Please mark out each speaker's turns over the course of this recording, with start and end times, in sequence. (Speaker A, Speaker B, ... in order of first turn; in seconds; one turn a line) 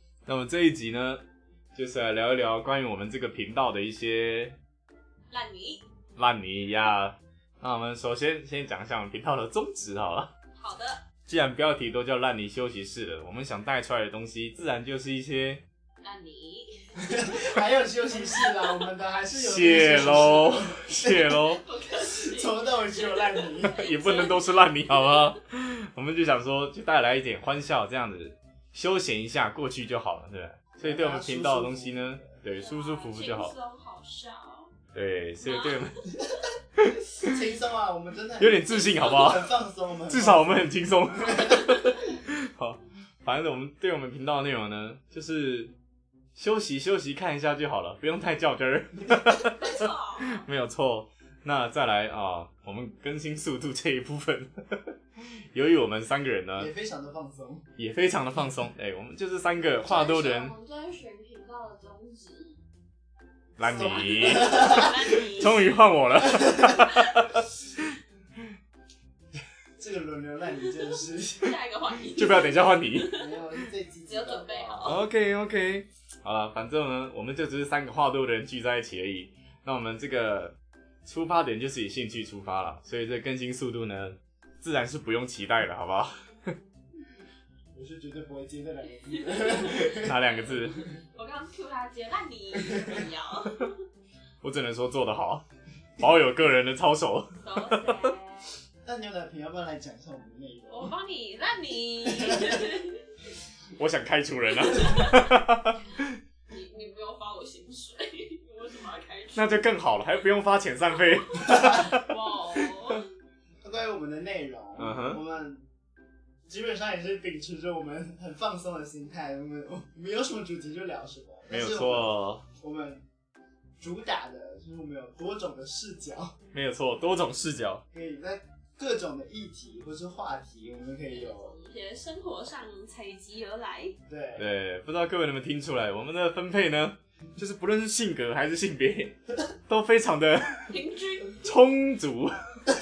Speaker A: 0.2-1.2
Speaker A: 1.7-4.5
Speaker B: 5.3-5.8
Speaker A: 6.2-10.3
Speaker B: 10.6-11.0
Speaker A: 11.3-15.6
Speaker B: 16.0-17.1
Speaker C: 17.0-21.4
Speaker B: 18.2-18.6
Speaker A: 19.3-21.6
Speaker B: 21.5-25.3
Speaker C: 21.9-23.8
Speaker A: 23.6-33.5
Speaker C: 30.8-32.4
Speaker B: 32.5-34.7
Speaker A: 34.9-36.0
Speaker B: 35.4-36.0
Speaker A: 36.8-37.3
Speaker C: 37.2-40.6
Speaker A: 38.4-39.5
Speaker A: 40.1-45.7
Speaker C: 41.2-41.6
Speaker B: 41.4-41.9
Speaker A: 46.4-54.8
Speaker B: 49.5-50.4
Speaker A: 55.5-56.7
Speaker C: 56.6-57.6
Speaker A: 57.8-60.5
Speaker B: 59.8-62.6
Speaker A: 63.6-67.4
Speaker C: 63.6-64.9
Speaker B: 63.6-65.8
Speaker C: 69.8-71.5
Speaker B: 71.0-73.5
Speaker A: 72.1-73.1
Speaker C: 73.1-75.0
Speaker B: 74.0-75.0
Speaker A: 74.8-80.5
Speaker A: 81.0-86.5
Speaker C: 87.7-90.1
Speaker B: 89.1-93.7
Speaker A: 90.0-90.8
Speaker C: 92.7-92.9
Speaker A: 94.4-95.4
Speaker A: 96.0-98.1
Speaker B: 97.4-98.5
Speaker C: 98.8-100.9
Speaker B: 100.7-103.0
Speaker C: 102.2-102.6
Speaker A: 103.8-106.2
Speaker B: 104.6-105.2
Speaker B: 106.5-109.6
Speaker A: 109.3-112.0
Speaker B: 111.3-113.1
Speaker C: 113.6-115.6
Speaker A: 114.8-115.2
Speaker C: 116.5-123.0
Speaker A: 121.5-122.4
Speaker C: 123.8-126.3
Speaker A: 126.5-127.8
Speaker C: 127.9-131.5
Speaker B: 131.1-133.9
Speaker C: 134.1-134.5
Speaker A: 134.4-139.2
Speaker A: 139.7-140.7
Speaker B: 140.7-141.4
Speaker A: 141.4-142.4